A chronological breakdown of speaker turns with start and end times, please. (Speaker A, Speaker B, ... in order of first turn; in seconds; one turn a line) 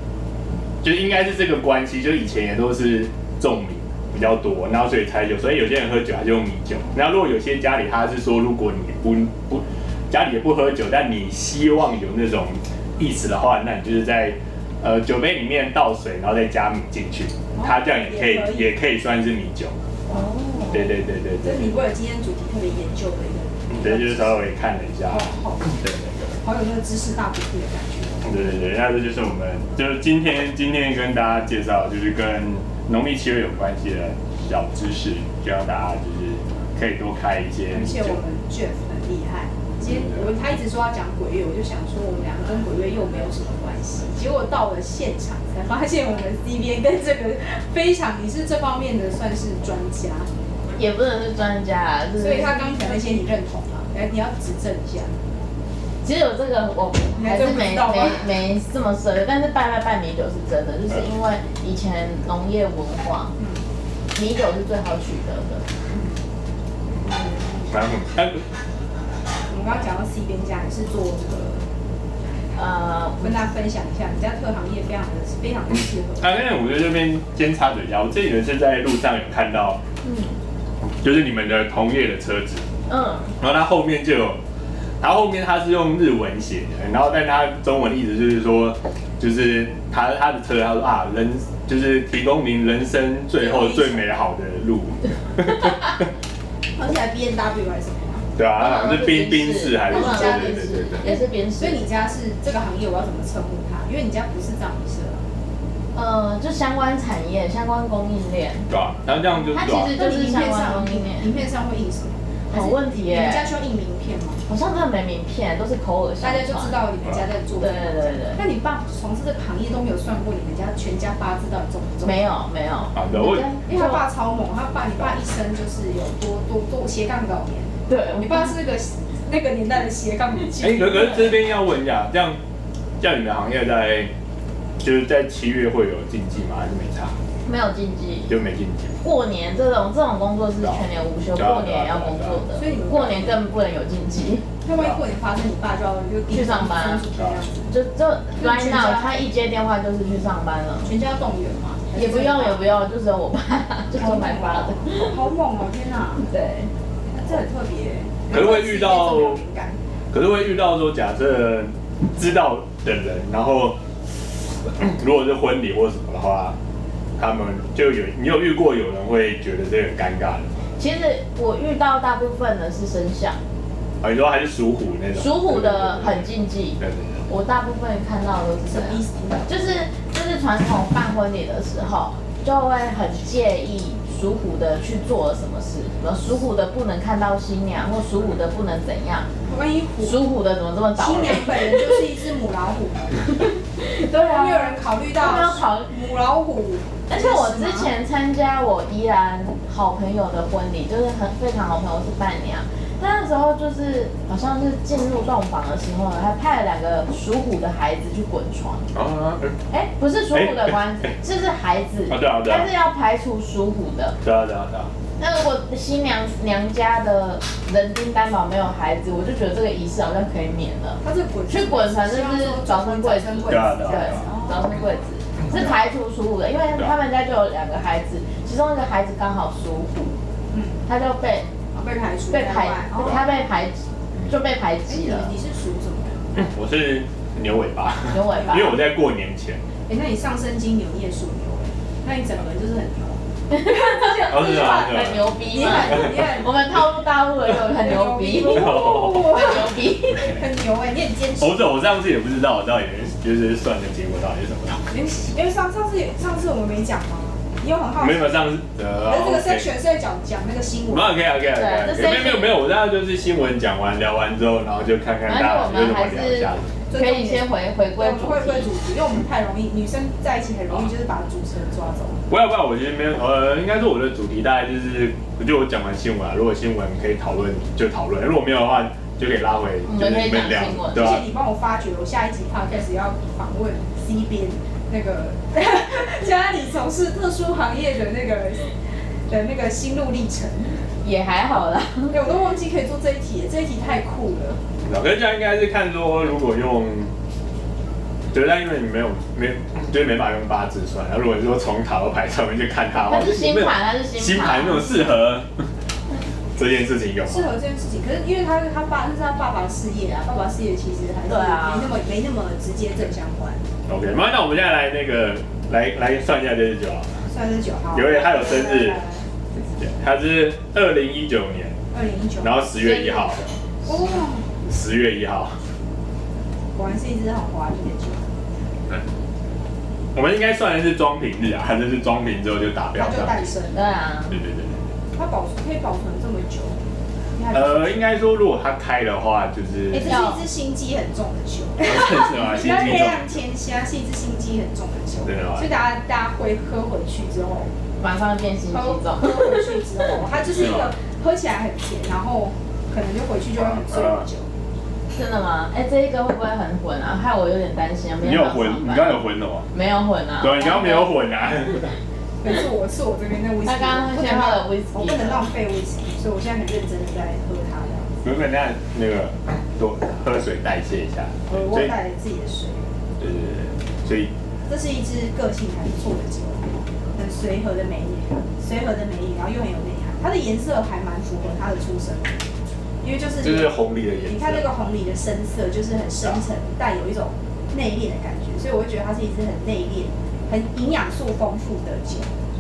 Speaker A: 0.8-19.8
Speaker B: 17.5-18.8
Speaker B: 20.1-20.8
Speaker C: 20.1-20.9
Speaker A: 20.7-21.8
Speaker B: 21.4-24.5
Speaker A: 23.7-26.4
Speaker B: 25.1-25.8
Speaker B: 26.4-28.2
Speaker A: 28.2-38.2
Speaker B: 37.7-50.3
Speaker A: 39.8-40.3
Speaker C: 50.8-53.2
Speaker B: 52.2-55.1
Speaker C: 56.0-63.3
Speaker B: 57.1-58.3
Speaker B: 63.4-63.6
Speaker C: 64.1-65.6
Speaker A: 66.9-68.4
Speaker B: 69.5-71.6
Speaker C: 72.5-73.4
Speaker B: 73.2-76.3
Speaker A: 76.2-79.8
Speaker C: 80.0-80.3
Speaker A: 80.8-82.7
Speaker C: 82.9-83.3
Speaker A: 83.4-84.4
Speaker A: 85.0-96.1
Speaker B: 93.3-94.2
Speaker B: 96.7-98.3
Speaker A: 98.3-101.1
Speaker C: 98.5-101.8
Speaker B: 99.8-105.2
Speaker C: 105.9-108.7
Speaker A: 108.7-109.9
Speaker C: 109.5-111.3
Speaker B: 109.8-114.4
Speaker C: 112.5-113.5
Speaker C: 114.5-116.8
Speaker B: 116.2-122.3
Speaker C: 117.6-118.4
Speaker C: 122.0-124.0
Speaker A: 122.9-123.5
Speaker B: 123.6-131.4
Speaker C: 127.9-128.5
Speaker A: 130.5-132.4
Speaker A: 133.0-134.1
Speaker A: 134.8-137.2
Speaker C: 137.4-138.3
Speaker A: 138.3-139.0
Speaker C: 139.0-144.4
Speaker A: 140.6-142.4
Speaker B: 142.5-143.5
Speaker B: 144.6-147.7
Speaker A: 144.7-145.0
Speaker C: 146.3-147.1
Speaker A: 147.1-147.4
Speaker C: 147.7-150.9
Speaker B: 148.3-149.2
Speaker B: 150.8-152.7
Speaker C: 151.9-155.2
Speaker B: 153.9-156.2
Speaker C: 156.2-156.7
Speaker B: 157.1-159.8
Speaker A: 158.3-159.4
Speaker A: 160.1-163.8
Speaker A: 164.6-166.6
Speaker A: 167.2-170.5
Speaker C: 170.8-173.4
Speaker A: 174.0-177.2
Speaker C: 175.1-189.3
Speaker B: 178.7-179.8
Speaker B: 189.5-190.3
Speaker C: 190.0-192.0
Speaker B: 190.9-193.4
Speaker C: 193.7-195.9
Speaker B: 194.2-197.9
Speaker C: 197.1-208.9
Speaker A: 208.9-209.6
Speaker C: 209.7-214.2
Speaker A: 210.3-211.1
Speaker A: 212.1-212.7
Speaker A: 214.2-214.9
Speaker C: 215.2-230.2
Speaker B: 221.0-224.9
Speaker A: 223.5-224.3
Speaker A: 225.4-225.8
Speaker B: 230.5-230.8
Speaker C: 230.8-231.5
Speaker B: 231.7-233.4
Speaker C: 232.3-235.3
Speaker A: 232.9-233.2
Speaker B: 234.9-236.3
Speaker A: 236.3-239.6
Speaker C: 238.1-238.8
Speaker B: 238.2-238.8
Speaker B: 239.9-243.2
Speaker C: 243.5-250.4
Speaker B: 243.8-246.8
Speaker A: 244.3-246.1
Speaker B: 247.6-251.7
Speaker A: 248.5-249.4
Speaker A: 251.4-254.8
Speaker B: 254.9-261.2
Speaker A: 258.0-259.7
Speaker A: 260.9-266.7
Speaker C: 261.5-262.6
Speaker C: 265.2-268.7
Speaker B: 266.9-272.2
Speaker A: 272.3-281.2
Speaker C: 279.8-281.1
Speaker B: 280.9-288.8
Speaker B: 289.3-290.8
Speaker C: 291.0-292.2
Speaker B: 292.1-294.6
Speaker A: 294.8-297.1
Speaker A: 298.3-305.5
Speaker C: 303.0-305.0
Speaker A: 306.6-307.5
Speaker B: 307.2-313.6
Speaker C: 311.3-311.9
Speaker A: 313.9-317.2
Speaker B: 317.3-319.3
Speaker A: 317.9-319.0
Speaker A: 319.8-321.8
Speaker B: 321.9-322.6
Speaker A: 322.4-323.5
Speaker C: 322.7-323.4
Speaker B: 323.9-324.5
Speaker A: 324.6-325.6
Speaker B: 326.7-328.3
Speaker A: 330.1-333.5
Speaker B: 332.9-333.9
Speaker C: 333.7-334.4
Speaker A: 334.3-334.9
Speaker B: 335.1-336.8
Speaker B: 337.3-338.1
Speaker A: 337.5-340.2
Speaker B: 339.9-347.7
Speaker C: 340.0-340.4
Speaker A: 341.8-343.4
Speaker A: 345.2-345.7
Speaker C: 348.0-349.9
Speaker B: 348.7-354.5
Speaker A: 350.3-350.9
Speaker A: 353.6-354.2
Speaker C: 355.1-361.1
Speaker A: 358.2-359.7
Speaker A: 360.4-362.0
Speaker B: 362.4-368.1
Speaker C: 363.6-365.5
Speaker A: 368.2-371.9
Speaker B: 371.5-372.8
Speaker A: 373.2-374.3
Speaker B: 374.7-382.4
Speaker B: 383.0-392.3
Speaker A: 383.4-384.7